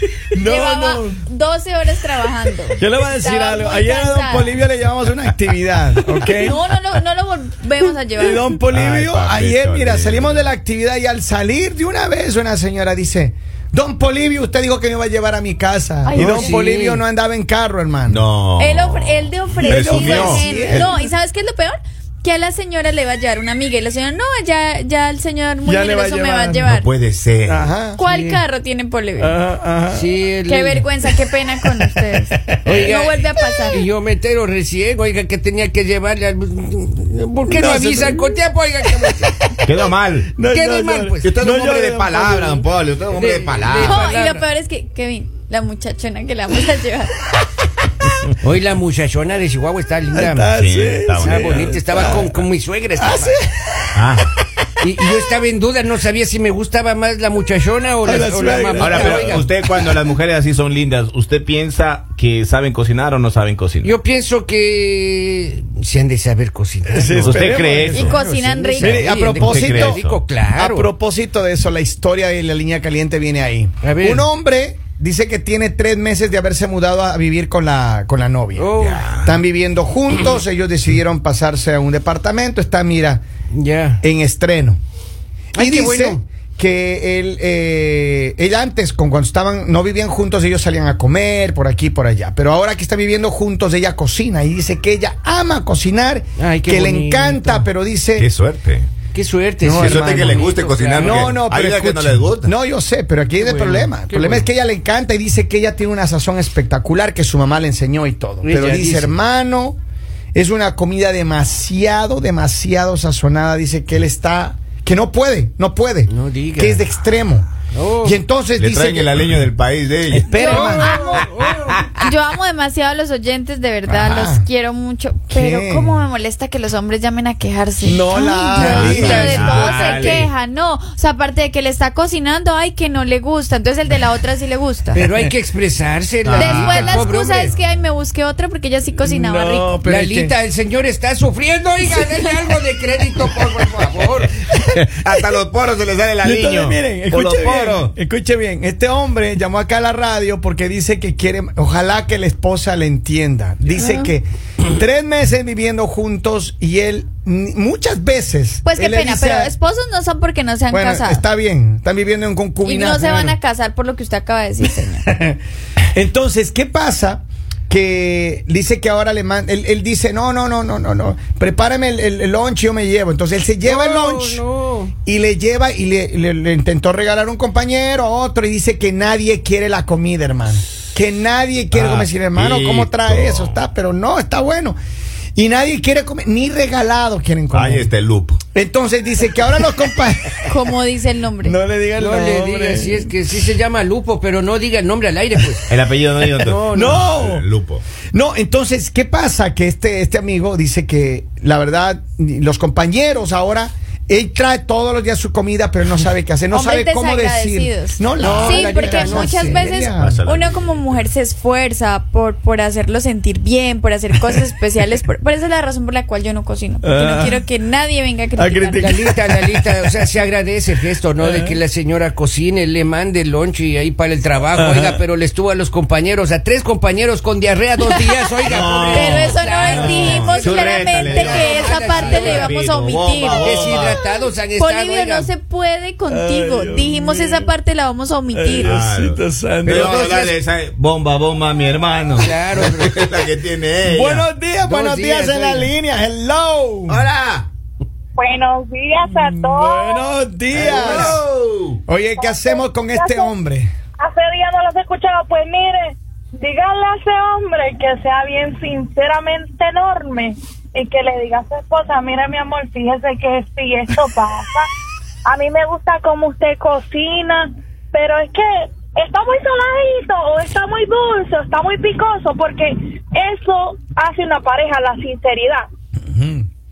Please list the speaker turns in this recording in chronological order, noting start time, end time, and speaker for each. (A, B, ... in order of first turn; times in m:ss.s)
0:00.3-0:01.2 A
0:00.4-0:04.5 B
0:02.8-0:06.6 A
0:06.4-0:08.5 B
0:08.2-0:18.2 A
0:08.7-0:10.5 C
0:16.0-0:16.6 B
0:16.4-0:17.0 D
0:18.1-0:20.9 C
0:18.6-0:26.9 B
0:19.6-0:21.1 A
0:25.6-0:26.7 A
0:26.6-0:27.6 C
0:27.5-0:28.0 A
0:28.0-0:29.4 B
0:28.1-0:28.4 D
0:29.2-0:30.1 A
0:29.9-0:30.8 D
0:30.4-0:33.9 B
0:31.0-0:32.8 A
0:32.6-0:39.1 D
0:37.5-0:39.5 A
0:39.6-0:40.4 C
0:40.3-0:42.6 A
0:40.5-0:41.3 D
0:41.2-0:44.0 C
0:43.1-0:44.4 D
0:43.7-0:47.2 B
0:48.4-0:50.5 D
0:50.1-0:52.3 A
0:50.5-0:51.8 C
0:51.2-0:53.3 D
0:53.0-0:54.0 A
0:54.0-0:54.3 C
0:54.8-0:59.4 D
0:58.0-0:59.4 A
0:58.8-1:04.0 C
1:03.8-1:07.2 D
1:06.9-1:08.2 A
1:07.1-1:08.2 C
1:07.9-1:09.1 B
1:08.2-1:10.9 D
1:08.8-1:23.2 A
1:08.8-1:10.2 C
1:13.8-1:14.2 D
1:18.6-1:19.0 D
1:18.8-1:19.4 C
1:23.5-1:24.0 D
1:24.0-1:24.8 A
1:25.6-1:26.1 D
1:25.6-1:38.3 A
1:36.4-1:37.6 D
1:38.2-1:38.9 C
1:39.1-1:41.1 D
1:39.6-1:49.8 A
1:39.7-1:42.5 C
1:43.4-1:44.5 D
1:48.4-1:49.1 D
1:50.3-1:57.5 A
1:56.1-1:56.8 D
1:57.7-1:58.2 D
1:58.0-1:59.4 A
1:58.6-2:01.3 C
2:00.1-2:01.2 A
2:00.3-2:01.2 B
2:02.0-2:15.0 B
2:03.8-2:04.4 A
2:05.3-2:06.0 A
2:07.8-2:09.9 A
2:08.6-2:10.3 C
2:08.6-2:10.2 D
2:15.0-2:15.3 A
2:15.0-2:16.3 D
2:16.2-2:17.7 A
2:16.3-2:19.8 B
2:16.6-2:17.0 C
2:17.0-2:17.5 D
2:19.0-2:20.3 A
2:19.8-2:24.3 D
2:24.7-2:27.9 C
2:26.2-2:39.5 A
2:33.8-2:34.1 B
2:38.6-2:41.2 B
2:40.7-2:43.4 A
2:42.6-2:45.0 B
2:45.1-2:45.3 A
2:45.9-2:54.4 A
2:53.6-2:54.9 D
2:55.0-3:04.8 A
3:01.7-3:03.6 C
3:05.3-3:07.9 A
3:07.5-3:08.4 C
3:08.5-3:10.5 A
3:10.5-3:11.5 B
3:11.4-3:13.1 A
3:12.0-3:15.7 D
3:15.7-3:17.8 C
3:16.5-3:17.0 D
3:16.6-3:17.4 A
3:18.1-3:30.2 A
3:26.5-3:38.9 B
3:28.2-3:29.3 D
3:29.9-3:31.0 C
3:36.8-3:37.4 A
3:38.4-3:40.1 A
3:38.8-3:52.5 D
3:41.2-3:41.6 A
3:44.5-3:45.0 A
3:47.8-3:48.2 B
3:48.4-3:54.0 C
3:48.9-3:58.7 B
3:53.4-3:55.3 D
3:56.1-3:57.5 A
3:58.3-4:00.3 A
3:58.6-4:04.2 C
4:02.2-4:02.9 D
4:03.8-4:07.1 A
4:04.6-4:05.7 D
4:06.9-4:07.5 C
4:08.2-4:10.1 E
4:09.1-4:11.2 A
4:10.5-4:11.8 C
4:11.9-4:13.7 A
4:12.2-4:13.3 E
4:14.0-4:24.7 E
4:25.3-4:35.6 E
4:36.1-4:36.4 A